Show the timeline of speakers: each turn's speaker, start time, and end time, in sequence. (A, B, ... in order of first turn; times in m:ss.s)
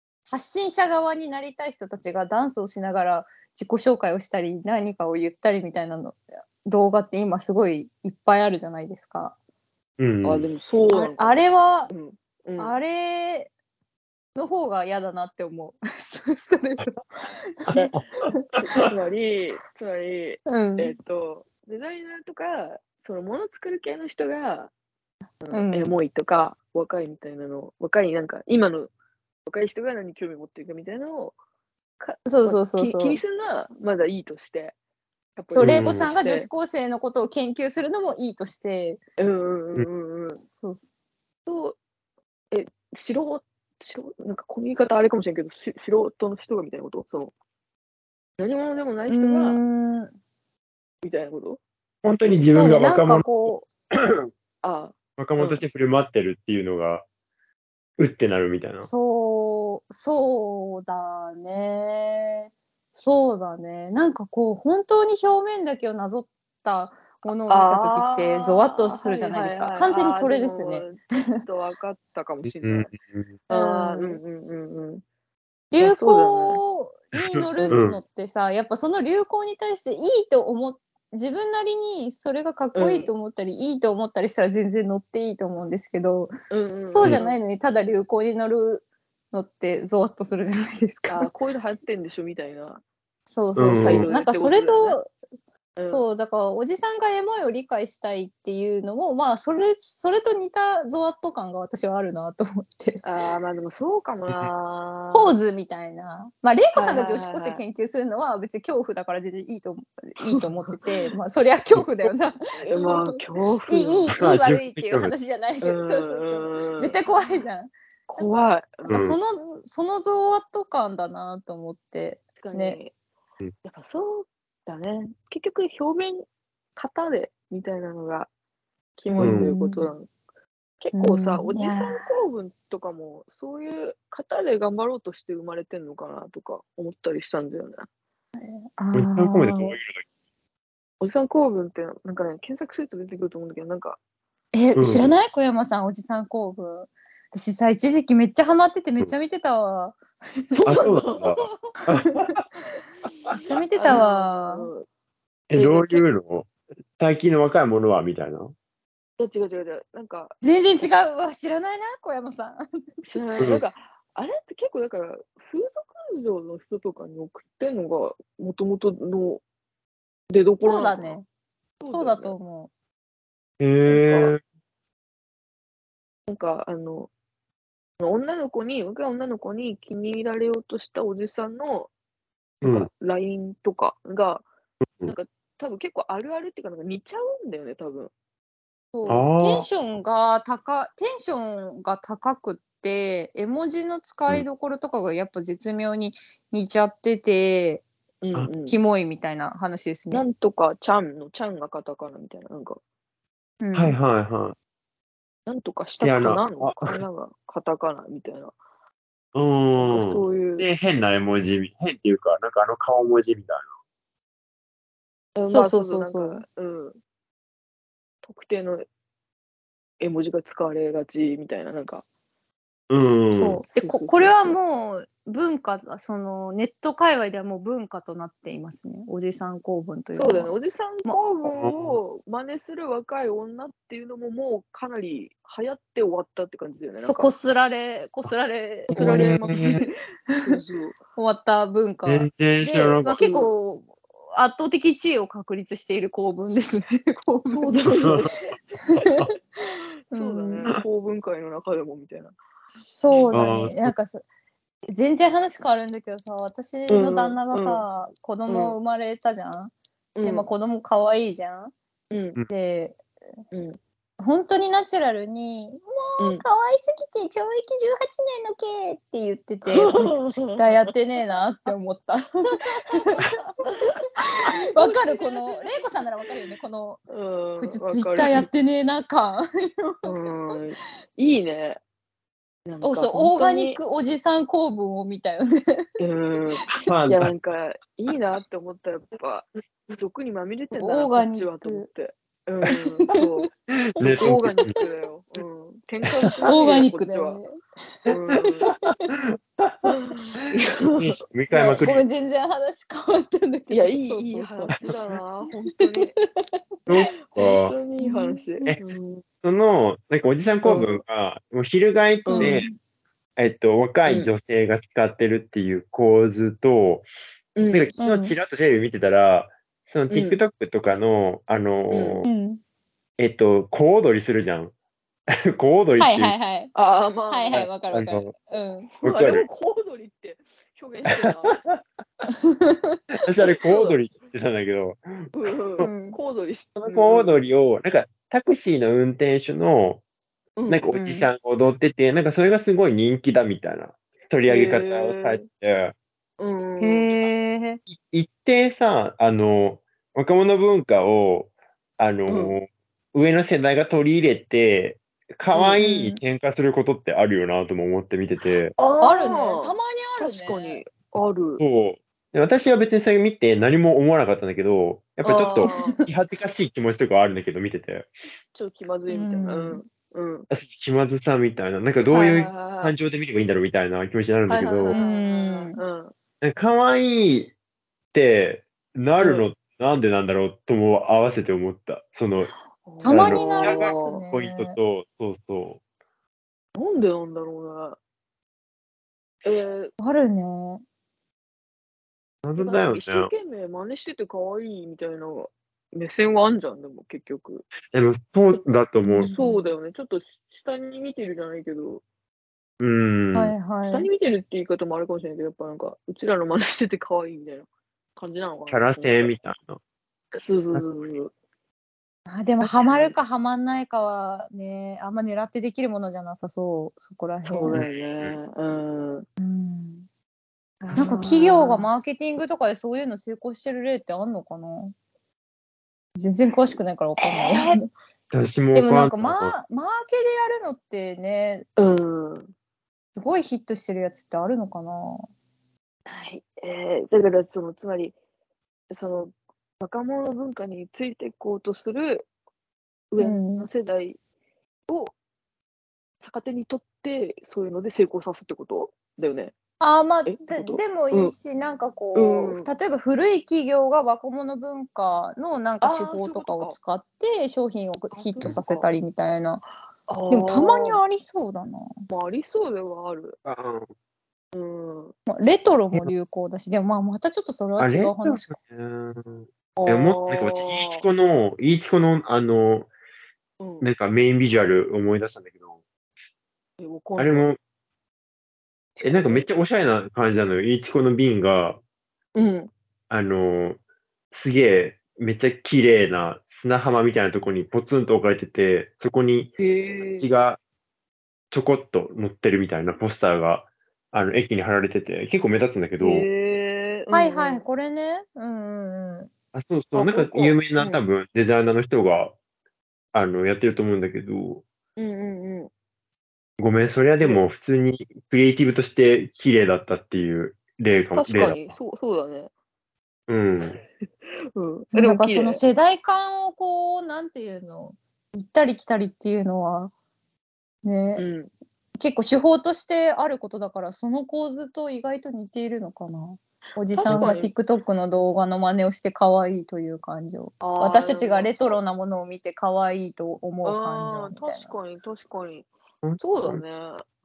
0:00.3-0:09.4 A
0:10.0-0:10.5 B
0:10.2-0:12.8 C
0:10.9-0:11.9 A
0:12.6-0:13.5 A
0:14.4-0:18.4 A
0:17.7-0:18.0 B
0:18.6-0:18.9 B
0:18.6-0:24.7 C
0:20.5-0:21.0 A
0:25.4-0:28.9 C
0:25.5-0:25.9 A
0:29.5-0:31.4 C
0:32.0-0:34.8 C
0:32.3-0:33.2 A
0:35.4-0:36.5 C
0:35.5-0:39.0 A
0:35.6-0:36.1 B
0:39.2-0:40.4 C
0:40.4-0:40.9 A
0:41.5-0:41.8 C
0:42.5-0:47.3 C
0:48.4-0:49.6 C
0:49.1-0:50.1 A
0:51.0-0:51.6 C
0:52.0-0:53.4 B
0:52.5-0:53.7 A
0:53.9-0:54.3 B
0:54.6-0:55.6 C
0:55.2-0:57.1 B
0:58.0-0:58.9 B
0:58.8-1:11.3 A
1:07.5-1:12.9 C
1:12.4-1:13.4 B
1:13.5-1:15.0 C
1:13.5-1:14.2 A
1:15.7-1:26.3 A
1:15.8-1:16.6 C
1:17.2-1:18.0 B
1:22.8-1:23.1 C
1:26.5-1:27.4 C
1:26.9-1:31.3 A
1:31.1-1:32.8 C
1:33.3-1:35.1 A
1:33.6-1:34.1 B
1:33.7-1:35.0 C
1:35.8-1:36.0 C
1:35.9-1:43.0 A
1:43.0-1:45.4 C
1:45.1-1:53.1 A
1:46.8-1:47.6 C
1:50.2-1:50.9 C
1:52.6-1:54.2 C
1:53.7-1:58.3 A
1:54.2-1:55.1 B
1:55.6-1:57.0 C
1:58.1-1:59.0 C
1:58.8-2:02.8 A
1:58.9-1:59.2 B
2:02.4-2:02.9 C
2:03.6-2:06.2 C
2:06.8-2:08.3 C
2:09.0-2:10.1 C
2:09.2-2:09.5 B
2:09.2-2:09.9 A
2:10.8-2:17.9 C
2:10.9-2:12.0 A
2:18.4-2:19.7 A
2:18.9-2:20.0 B
2:21.0-2:24.0 C
2:24.5-2:30.0 A
2:24.8-2:25.1 B
2:30.5-2:31.7 C
2:30.6-2:32.4 B
2:32.0-2:32.3 A
2:33.3-2:34.8 C
2:33.4-2:34.7 A
2:35.5-2:38.5 B
2:35.5-2:36.0 C
2:39.2-2:40.4 C
2:40.4-2:43.0 A
2:43.0-2:49.4 C
2:43.4-2:43.6 B
2:50.3-2:51.2 C
2:50.6-2:51.3 A
2:51.8-2:52.4 C
2:51.9-2:52.7 A
2:53.6-2:54.4 B
2:53.9-2:54.4 C
2:56.3-2:57.1 C
2:58.0-3:01.9 C
3:02.6-3:02.9 B
3:02.6-3:04.4 C
3:05.1-3:08.1 C
3:08.9-3:17.8 A
3:09.1-3:09.7 B
3:18.2-3:18.8 C
3:18.6-3:20.2 A
3:20.1-3:22.8 C
3:23.6-3:24.0 A
3:23.7-3:24.6 B
3:25.5-3:28.6 C
3:26.0-3:27.0 B
3:29.3-3:33.7 B
3:29.8-3:30.7 C
3:35.4-3:37.0 C
3:35.5-3:36.4 A
3:38.2-3:38.9 C
3:40.0-3:42.0 C
3:42.9-3:43.6 B
3:43.3-3:50.5 A
3:43.7-3:44.6 C
3:50.1-3:57.3 C
3:51.4-3:52.0 B
3:57.0-3:59.8 A
3:58.9-3:59.8 C
3:58.9-3:59.8 B
4:00.4-4:01.0 C
4:01.2-4:07.9 A
4:02.1-4:03.5 B
4:07.5-4:12.4 C
4:07.9-4:08.3 B
4:09.0-4:09.3 A
4:10.1-4:10.7 A
4:12.8-4:14.2 A
4:13.3-4:13.9 B
4:14.9-4:19.7 A
4:16.9-4:17.8 C
4:18.5-4:18.8 C
4:20.2-4:20.5 C
4:20.2-4:21.7 A
4:22.1-4:22.4 C
4:22.5-4:23.0 A
4:23.5-4:23.8 C
4:24.2-4:33.5 A
4:26.2-4:26.4 C
4:29.7-4:30.9 C
4:33.6-4:35.9 C
4:34.2-4:37.0 A
4:37.1-4:38.5 C
4:37.6-4:40.6 A
4:40.0-4:41.8 C
4:42.7-4:43.8 C
4:42.8-4:45.9 A
4:46.0-4:57.4 C
4:46.8-4:47.3 B
4:50.8-4:51.9 A
4:53.7-4:54.7 B
4:56.4-4:58.1 A
4:58.1-4:58.7 C
4:58.7-4:59.1 A
4:58.7-4:59.8 B
4:59.8-5:01.2 C
5:01.0-5:02.0 B
5:01.5-5:04.8 A
5:03.7-5:06.2 C
5:06.0-5:06.4 A
5:06.9-5:07.7 B
5:07.2-5:09.2 C
5:08.0-5:08.4 A
5:09.4-5:12.7 B
5:10.6-5:11.0 C
5:12.3-5:12.6 C
5:12.3-5:12.8 A
5:13.4-5:17.1 B
5:14.1-5:14.3 C
5:17.6-5:17.9 C
5:17.7-5:22.3 B
5:18.0-5:18.4 A
5:20.1-5:20.4 C
5:21.9-5:22.2 C
5:22.2-5:22.6 A
5:23.2-5:24.7 B
5:25.3-5:26.4 B
5:26.0-5:26.7 A
5:26.8-5:27.7 C
5:27.3-5:28.9 A
5:27.5-5:28.3 B
5:28.9-5:31.6 C
5:29.0-5:29.5 B
5:31.1-5:31.8 B
5:32.3-5:33.0 A
5:33.2-5:35.9 B
5:33.6-5:34.0 C
5:35.4-5:37.4 C
5:35.8-5:36.2 A
5:36.8-5:40.0 B
5:40.6-5:40.9 C
5:40.7-5:46.0 B
5:40.9-5:41.3 A
5:44.5-5:45.4 C
5:46.4-5:47.2 C
5:46.8-5:47.8 A
5:47.9-5:58.7 B
5:52.3-5:52.6 C
5:55.5-5:56.2 C
5:58.8-6:01.6 C
5:59.0-6:00.8 A
6:01.6-6:08.1 B
6:05.2-6:06.0 C
6:05.6-6:06.1 A
6:08.5-6:10.5 C
6:09.1-6:09.8 A
6:10.5-6:15.0 B
6:12.1-6:13.0 C
6:14.5-6:16.1 C
6:14.9-6:15.8 A
6:16.4-6:17.5 B
6:18.1-6:22.5 B
6:19.2-6:19.5 C
6:22.8-6:24.2 C
6:23.0-6:24.8 A
6:23.0-6:25.8 B
6:26.8-6:28.0 C
6:29.4-6:29.9 C
6:30.0-6:30.8 A
6:32.4-6:33.3 B
6:32.6-6:37.7 C
6:37.9-6:39.3 B
6:39.1-6:39.7 A
6:39.2-6:42.0 C
6:42.8-6:43.5 B
6:43.4-6:44.1 A
6:43.8-6:49.3 C
6:48.7-6:49.8 B
6:50.3-6:51.3 C
6:52.3-6:57.8 A
6:52.6-6:53.2 C
6:57.4-6:59.3 C
6:57.7-6:58.4 B
6:59.4-7:00.1 A
7:00.8-7:01.9 C
7:01.0-7:04.9 A
7:06.2-7:07.8 A
7:07.2-7:07.8 C
7:08.3-7:09.5 B
7:08.7-7:11.7 A
7:11.8-7:12.5 C
7:13.2-7:15.3 A
7:16.1-7:18.2 C
7:18.9-7:22.3 C
7:23.1-7:24.2 C
7:23.2-7:23.7 A
7:24.9-7:25.1 C
7:26.2-7:29.5 C
7:29.8-7:39.7 A
7:30.3-7:31.4 C
7:32.1-7:32.7 C
7:35.8-7:36.8 C
7:38.1-7:38.9 C
7:40.1-7:41.0 C
7:40.3-7:41.9 A
7:42.1-7:43.4 C
7:43.4-7:43.9 B
7:44.5-7:45.2 C
7:45.3-7:48.5 A
7:47.8-7:52.9 B
7:49.8-7:51.1 C
7:53.6-7:53.9 C
7:53.8-7:55.8 B
7:56.8-7:57.5 C
7:57.2-7:57.6 B
7:59.0-7:59.5 C
7:59.0-8:01.8 B
8:02.4-8:02.7 C
8:03.1-8:03.8 B
8:04.3-8:09.5 B
8:09.6-8:10.3 C
8:10.2-8:10.6 B
8:11.5-8:16.3 B
8:16.0-8:17.6 C
8:17.1-8:19.3 A
8:19.5-8:22.4 B
8:20.0-8:21.0 C
8:23.1-8:24.6 B
8:25.0-8:25.7 C
8:26.6-8:31.8 B
8:31.1-8:32.5 C
8:33.3-8:33.8 B
8:34.2-8:35.6 C
8:34.9-8:39.9 A
8:40.8-8:41.2 A
8:41.2-8:41.5 C
8:42.0-8:54.8 A
8:46.9-8:47.5 C
8:47.0-8:47.3 B
8:50.6-8:51.8 C
8:53.6-8:57.0 C
8:56.0-8:56.6 B